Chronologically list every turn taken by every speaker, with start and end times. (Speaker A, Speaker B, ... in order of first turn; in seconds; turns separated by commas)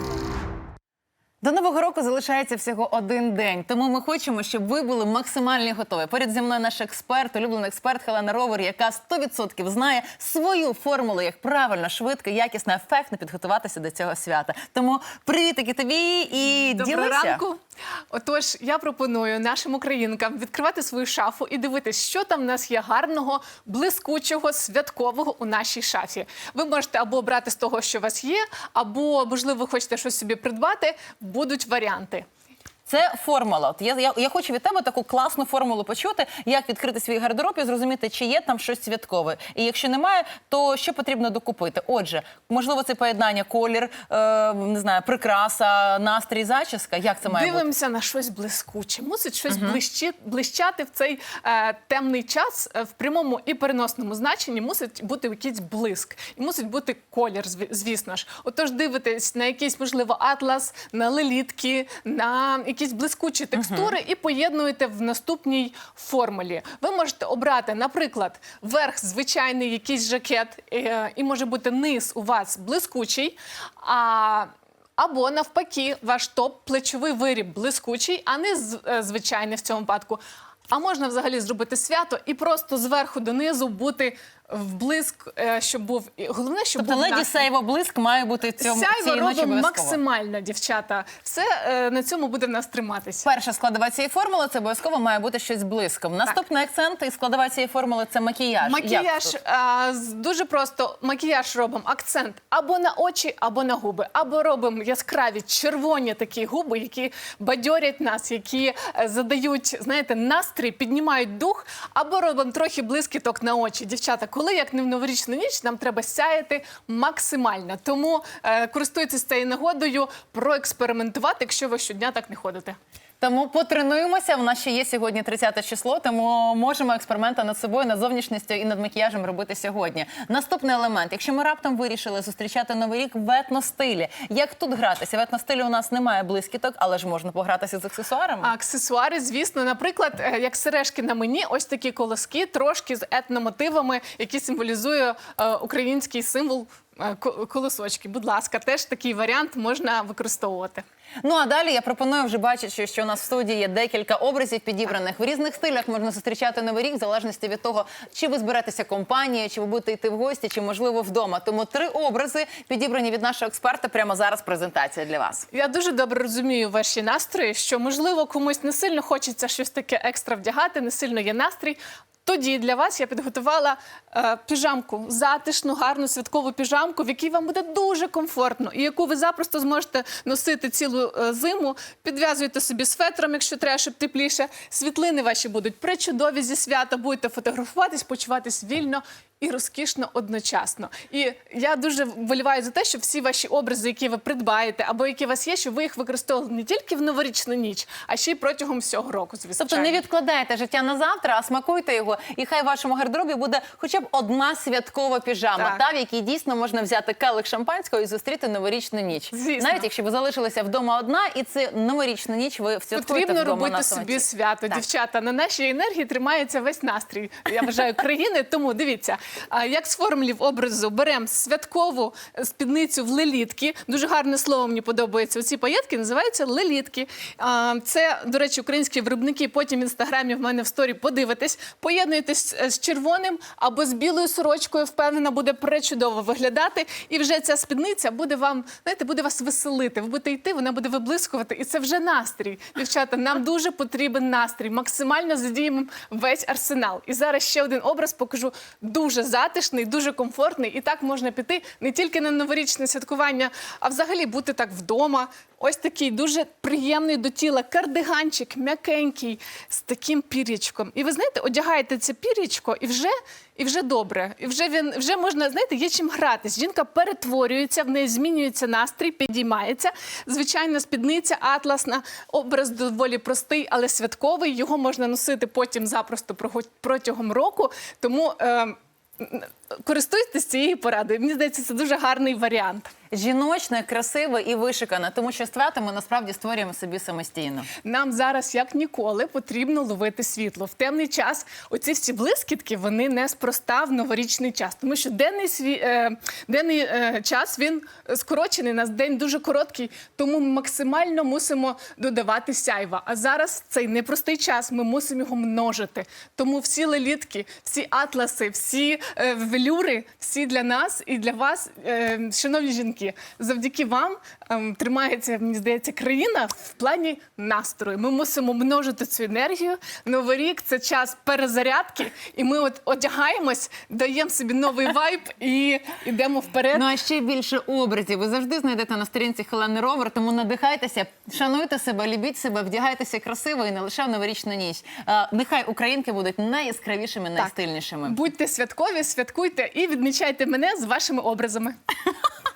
Speaker A: 1.4-17.4, Speaker B: 16.7-17.6, Speaker B: 18.1-32.2, Speaker A: 32.9-47.7, Speaker B: 47.2-87.5, Speaker A: 49.5-49.8, Speaker A: 63.5-63.9, Speaker A: 86.8-90.0, Speaker B: 88.6-93.3, Speaker A: 93.2-99.3, Speaker B: 98.6-122.8, Speaker A: 123.2-138.5, Speaker B: 138.4-150.8, Speaker A: 151.2-165.5, Speaker B: 165.5-200.0, Speaker A: 199.6-214.8, Speaker B: 209.3-209.9, Speaker B: 212.9-282.9, Speaker A: 283.1-287.7, Speaker B: 287.8-326.9, Speaker A: 326.7-338.2, Speaker B: 338.0-341.8